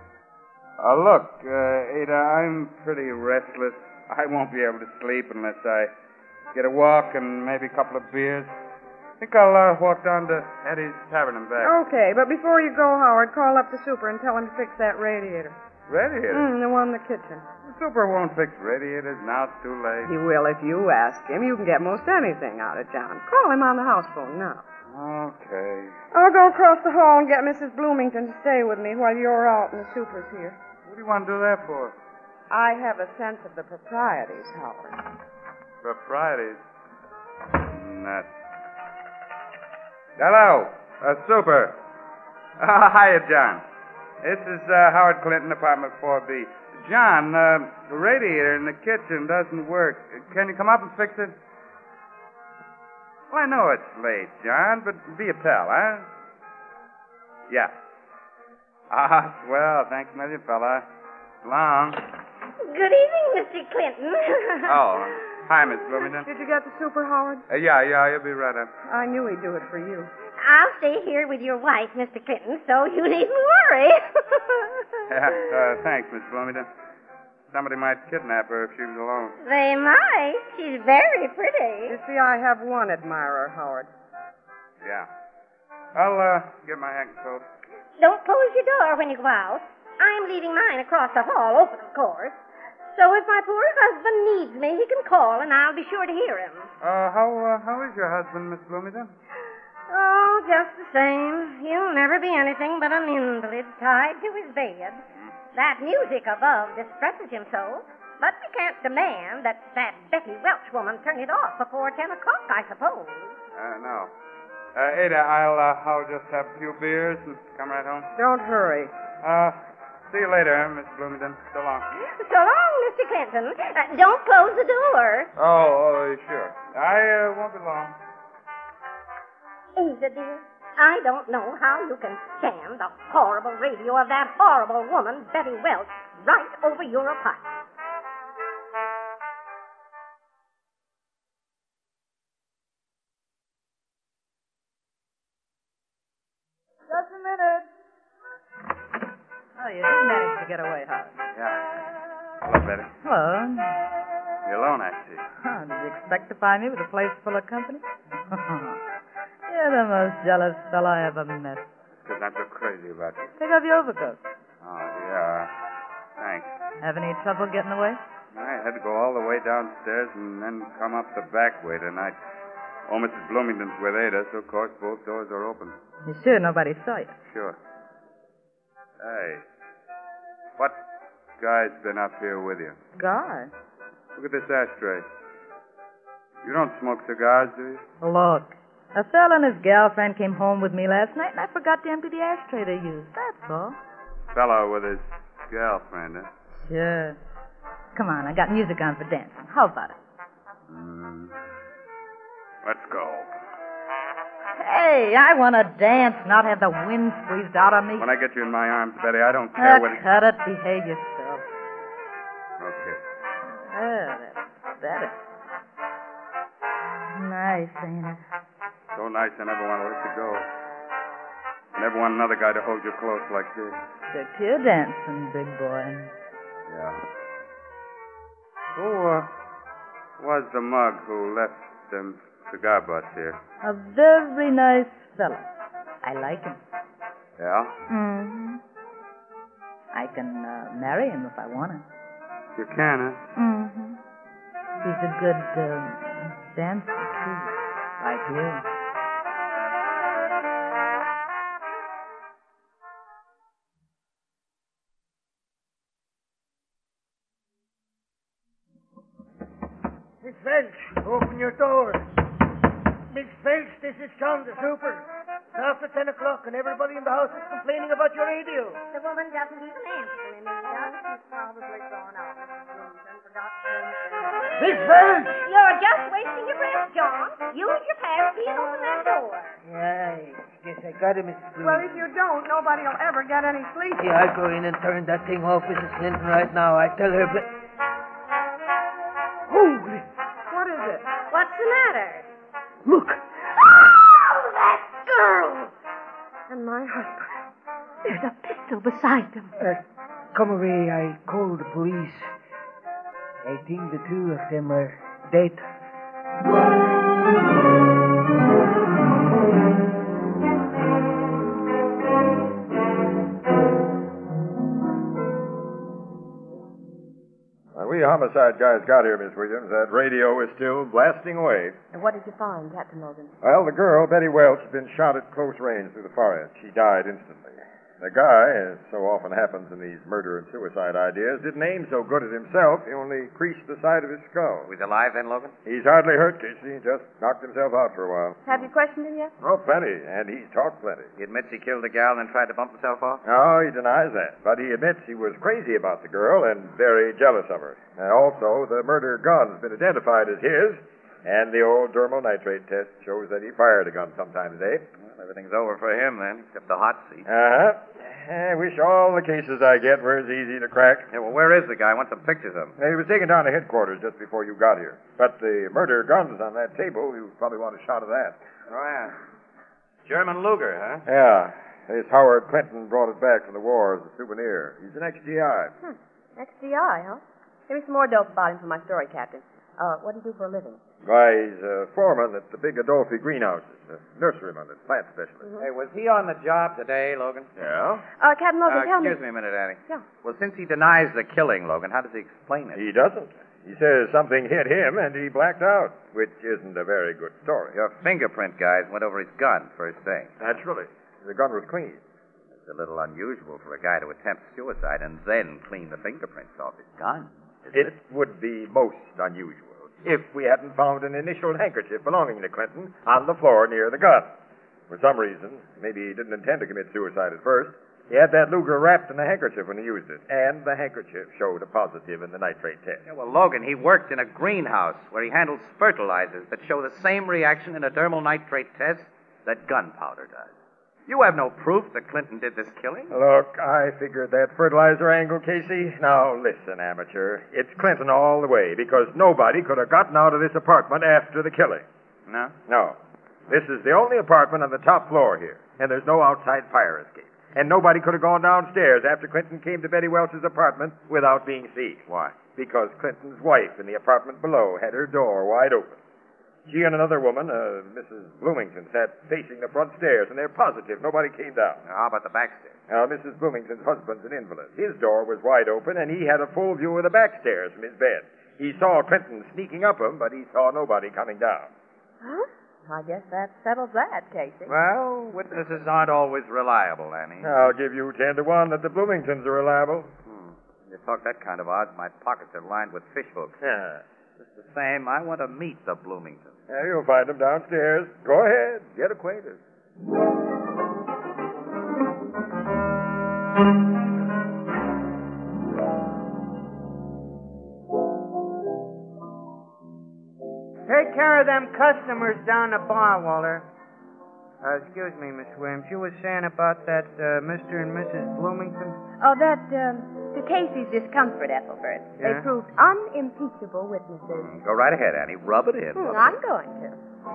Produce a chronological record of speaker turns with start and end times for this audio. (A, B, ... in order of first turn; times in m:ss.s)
0:00.8-0:05.9 A
0:06.5-0:08.5 A
0:09.2-0:11.8 A
0:11.6-0:15.6 B
0:15.9-0:16.5 A
0:16.3-0:17.5 B
0:17.6-0:20.1 A
0:20.1-0:24.6 B
0:24.9-0:26.0 A
0:26.1-0:30.6 B
0:30.9-0:32.0 A
0:32.5-0:35.0 B
0:35.8-0:36.6 A
0:37.6-0:38.3 A
0:40.2-0:41.8 A
0:42.6-0:43.6 A
0:44.2-0:51.4 A
0:53.3-0:56.1 A
0:57.5-0:57.8 A
0:58.9-1:00.9 A
1:01.4-1:02.0 A
1:02.6-1:04.8 C
1:04.7-1:06.3 A
1:06.2-1:07.4 B
1:07.5-1:08.7 A
1:08.9-1:10.1 B
1:10.4-1:14.9 C
1:15.1-1:16.7 A
1:17.5-1:19.4 A
1:19.4-1:22.0 C
1:21.9-1:23.9 B
1:24.8-1:25.1 A
1:26.0-1:27.5 A
1:28.0-1:32.4 C
1:32.9-1:36.7 C
1:36.8-1:39.1 A
1:39.9-1:45.0 C
1:45.5-1:53.4 C
1:53.6-1:54.1 A
1:54.8-1:58.1 A
1:58.2-1:58.9 B
1:59.2-2:01.9 A
2:02.0-2:05.3 C
2:05.4-2:08.0 A
2:09.8-2:17.4 C
2:26.9-2:27.7 D
2:29.6-2:31.2 D
2:31.4-2:31.6 A
2:32.4-2:32.9 A
2:33.0-2:33.8 D
2:34.4-2:35.2 A
2:35.4-2:38.8 D
2:39.5-2:41.7 D
2:42.0-2:43.4 A
2:43.4-2:44.2 D
2:44.6-2:45.5 A
2:46.2-2:46.5 A
2:46.8-2:48.0 D
2:48.3-2:52.2 A
2:52.9-2:55.8 A
2:56.0-2:57.2 D
2:57.3-2:57.6 A
2:59.0-2:59.4 A
3:01.4-3:02.8 A
3:03.0-3:03.5 D
3:04.2-3:05.1 A
3:06.4-3:07.8 A
3:08.0-3:13.8 D
3:14.3-3:16.3 A
3:16.6-3:17.2 D
3:17.9-3:20.0 D
3:20.7-3:21.4 A
3:22.6-3:23.3 A
3:24.6-3:28.1 D
3:28.0-3:30.0 A
3:29.6-3:31.5 D
3:32.6-3:33.0 A
3:33.7-3:35.2 D
3:37.2-3:38.2 D
3:38.9-3:40.5 A
3:41.8-3:43.8 A
3:44.1-3:46.1 D
3:46.7-3:47.0 A
3:48.8-3:49.3 A
3:50.2-3:53.4 A
3:53.6-3:55.5 D
3:56.0-3:56.6 D
3:57.4-3:57.8 A
3:57.9-3:58.6 D
3:59.9-4:01.8 D
4:02.6-4:03.2 A
4:03.4-4:04.0 D
4:04.8-4:08.6 D
4:20.2-4:22.1 E
4:23.1-4:28.8 E
4:28.9-4:31.0 C
4:31.0-4:33.9 B
4:34.6-4:35.4 E
4:35.4-4:39.6 C
4:39.6-4:42.1 E
4:41.6-4:44.1 B
4:44.0-4:47.4 E
4:49.5-4:50.1 E
4:50.5-4:51.1 B
4:51.3-4:52.3 C
4:52.8-4:54.0 E
4:54.6-4:55.7 C
4:56.5-4:57.3 B
4:58.2-4:58.9 E
4:58.2-4:59.5 C
5:00.3-5:02.3 E
5:03.4-5:05.6 E
5:17.8-5:21.8 F
5:21.9-5:23.4 G
5:23.4-5:34.7 F
5:34.7-5:35.6 H
5:35.6-5:38.4 F
5:38.5-5:39.3 G
5:39.4-5:41.1 F
5:41.2-5:43.2 H
5:43.2-5:54.8 F
5:55.0-5:57.3 H
5:57.3-6:01.1 F
6:01.1-6:02.8 H
6:02.8-6:08.4 F
6:08.7-6:09.2 H
6:10.1-6:11.0 H
6:11.0-6:15.8 F
6:15.8-6:20.8 G
6:21.0-6:25.5 F
6:25.6-6:27.5 H
6:27.6-6:28.0 F
6:28.2-6:29.2 G
6:28.6-6:32.8 H
6:32.7-6:37.8 F
6:37.7-6:40.4 H
6:40.4-6:42.0 F
6:42.6-6:47.9 H
6:47.7-6:54.3 F
6:54.9-7:03.0 F
7:03.1-7:10.5 H
7:11.1-7:13.1 H
7:13.1-7:21.8 F
7:22.3-7:22.6 H
7:22.7-7:23.0 F
7:23.5-7:36.0 F
7:32.1-7:32.4 H
7:36.7-7:41.8 F
7:41.8-7:42.8 H
7:42.9-7:51.7 F
7:52.2-7:54.7 G
7:54.7-7:57.6 H
7:57.4-8:00.1 F
8:00.3-8:03.6 H
8:03.6-8:04.0 F
8:04.4-8:06.6 H
8:06.7-8:09.6 F
8:20.9-8:23.7 I
8:24.6-8:29.0 I
8:29.2-8:34.5 G
8:32.2-8:32.5 I
8:34.4-8:36.3 H
8:36.0-8:37.0 G